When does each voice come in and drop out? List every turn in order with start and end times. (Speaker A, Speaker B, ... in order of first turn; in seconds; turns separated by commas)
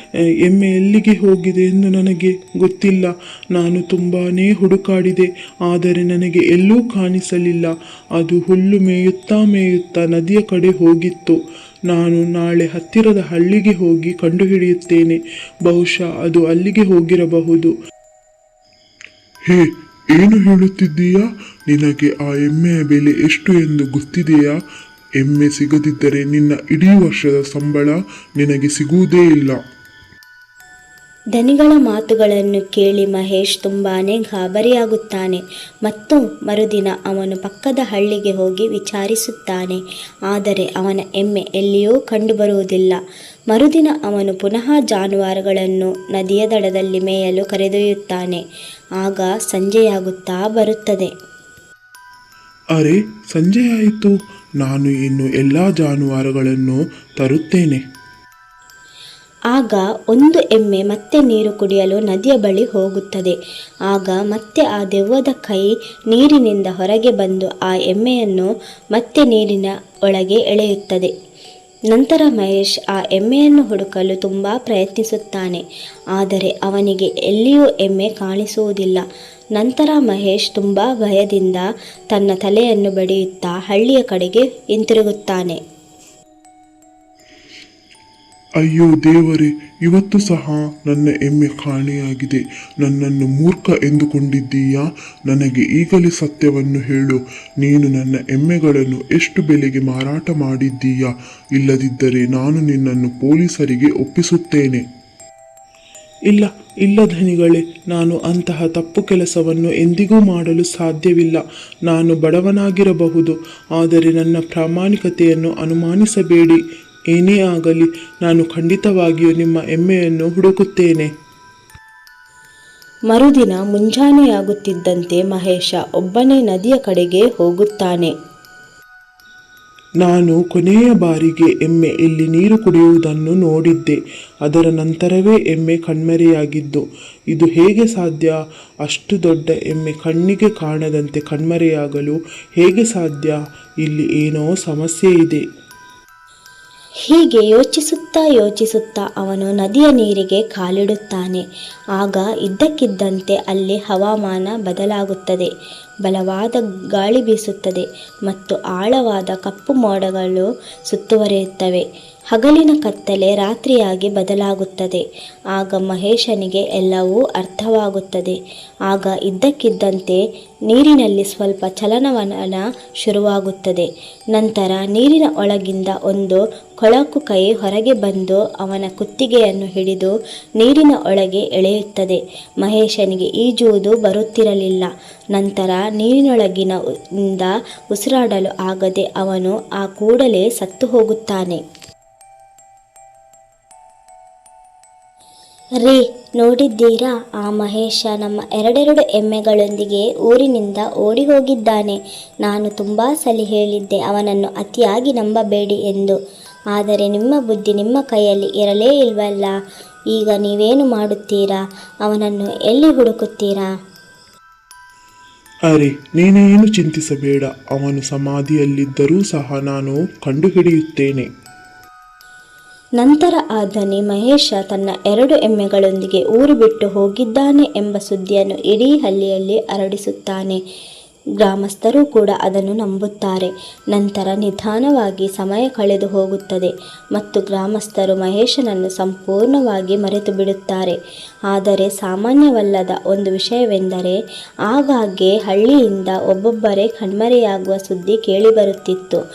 Speaker A: 0.5-11.4, Speaker A: 11.9-17.7, Speaker B: 20.1-24.5, Speaker A: 20.4-21.2, Speaker A: 21.8-22.1, Speaker B: 25.2-27.9, Speaker A: 25.6-27.9, Speaker B: 28.4-29.6, Speaker C: 31.4-43.0, Speaker C: 43.5-48.4, Speaker C: 49.0-51.1, Speaker A: 52.8-57.8, Speaker C: 59.5-63.4, Speaker C: 63.9-71.1, Speaker C: 71.9-75.6, Speaker C: 76.2-79.0, Speaker C: 79.6-85.6, Speaker A: 88.7-93.5, Speaker B: 92.8-104.8, Speaker A: 94.1-94.5, Speaker A: 95.4-95.7, Speaker A: 106.3-116.6, Speaker A: 117.1-121.1, Speaker C: 123.1-128.1, Speaker A: 130.0-145.4, Speaker C: 147.1-151.4, Speaker C: 152.0-155.5, Speaker C: 156.0-165.0, Speaker C: 165.5-168.4, Speaker C: 168.9-191.6, Speaker C: 195.8-206.2, Speaker C: 206.7-209.5, Speaker C: 210.1-213.7, Speaker A: 215.7-221.3, Speaker C: 223.0-230.6, Speaker C: 231.4-240.9, Speaker C: 241.5-244.2, Speaker C: 244.7-249.2